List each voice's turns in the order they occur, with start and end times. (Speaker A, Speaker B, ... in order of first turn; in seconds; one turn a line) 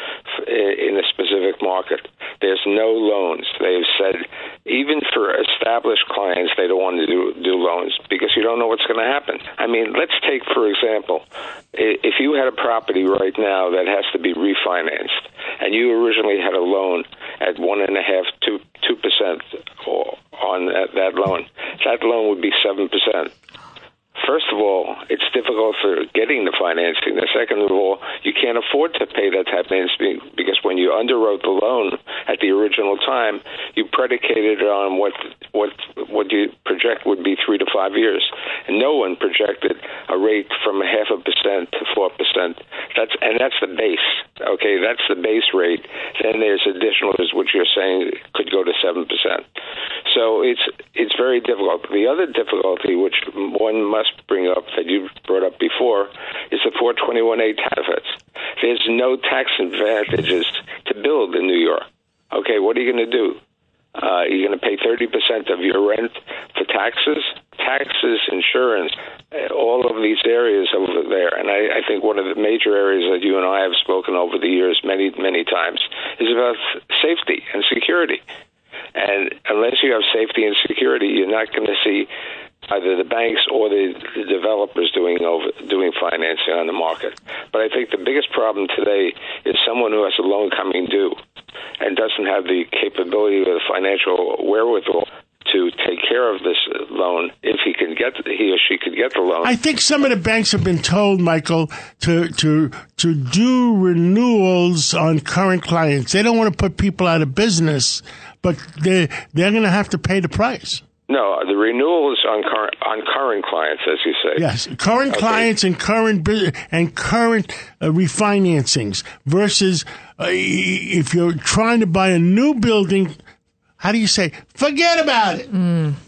Speaker A: 0.3-23.3
Speaker A: 24.2-49.5
Speaker A: 50.1-63.4
Speaker A: 64.0-78.2
Speaker A: 79.0-82.1
Speaker A: 82.7-91.2
Speaker A: 91.8-99.6
Speaker B: 99.4-110.8
Speaker A: 111.1-114.4
Speaker B: 114.4-123.2
Speaker A: 115.1-115.5
Speaker B: 123.8-125.5